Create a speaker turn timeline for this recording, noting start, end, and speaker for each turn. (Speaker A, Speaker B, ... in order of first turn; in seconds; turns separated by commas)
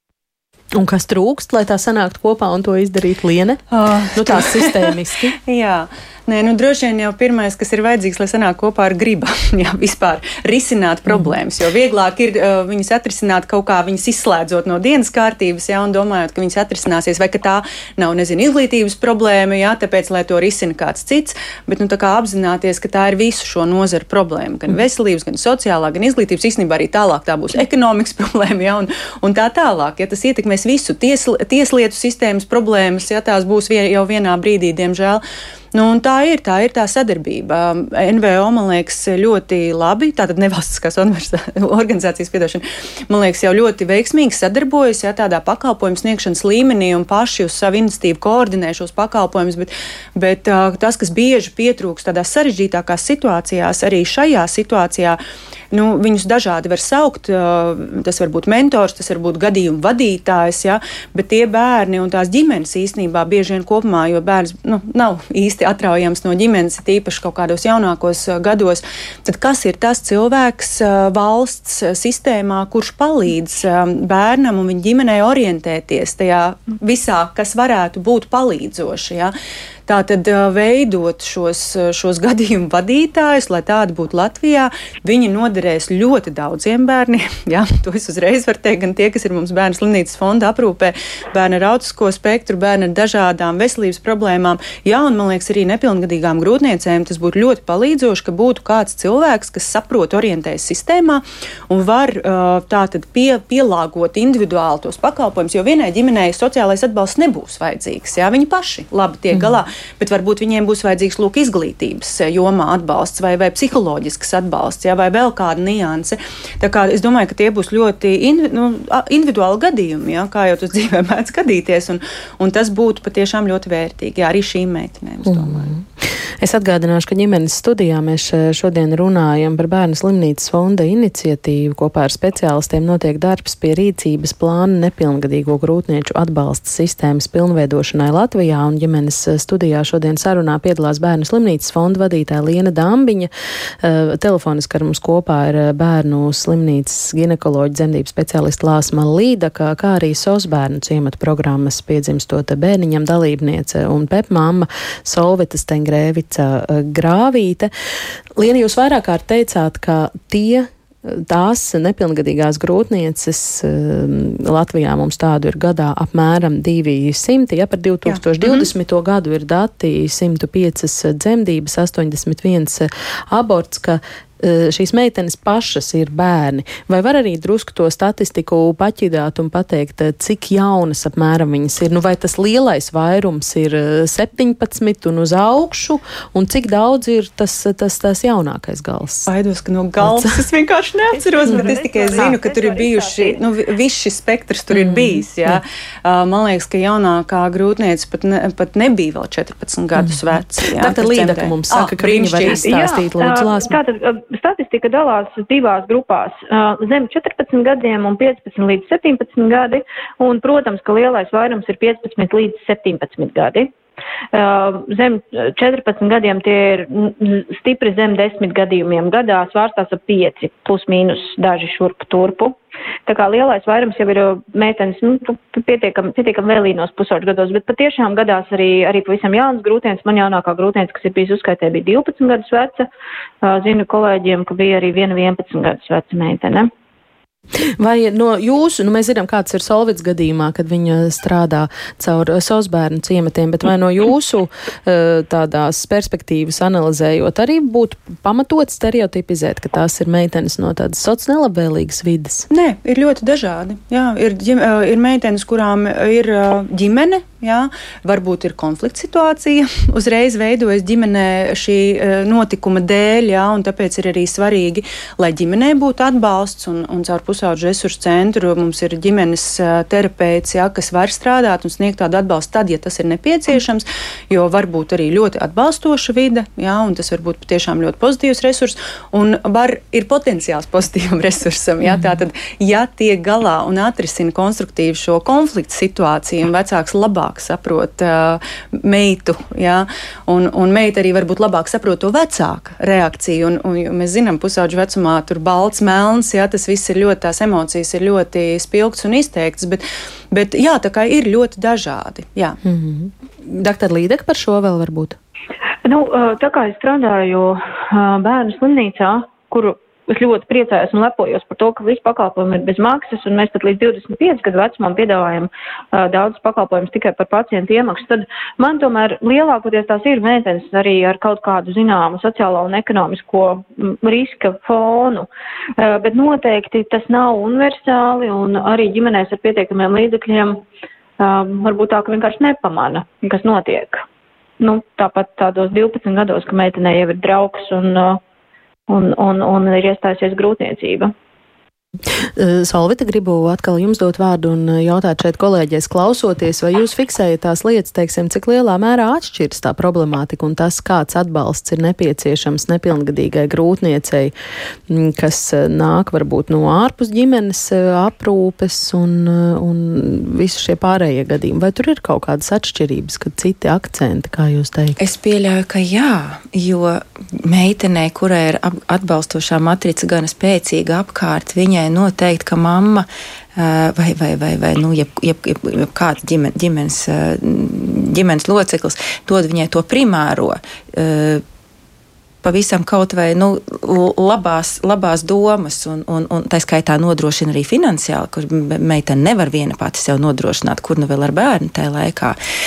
Speaker A: 0.7-3.6, Speaker B: 3.7-4.9, Speaker A: 4.1-5.3, Speaker B: 5.5-35.2, Speaker B: 35.7-55.2, Speaker B: 55.7-79.3, Speaker B: 79.9-125.7, Speaker A: 125.3-143.3, Speaker A: 143.8-157.7, Speaker A: 158.4-189.3, Speaker B: 168.1-168.7, Speaker B: 189.3-202.6, Speaker C: 191.2-193.4, Speaker A: 194.7-195.2, Speaker A: 200.0-203.8, Speaker C: 202.6-213.7, Speaker C: 214.3-232.9, Speaker C: 233.4-236.7, Speaker A: 237.8-252.4, Speaker B: 252.5-302.6, Speaker A: 302.6-305.1, Speaker C: 305.9-325.3, Speaker C: 325.8-330.6, Speaker C: 331.2-334.0, Speaker C: 334.6-338.2, Speaker C: 338.9-341.1, Speaker A: 342.4-354.3, Speaker A: 354.9-365.0, Speaker D: 365.0-381.4, Speaker D: 382.4-392.4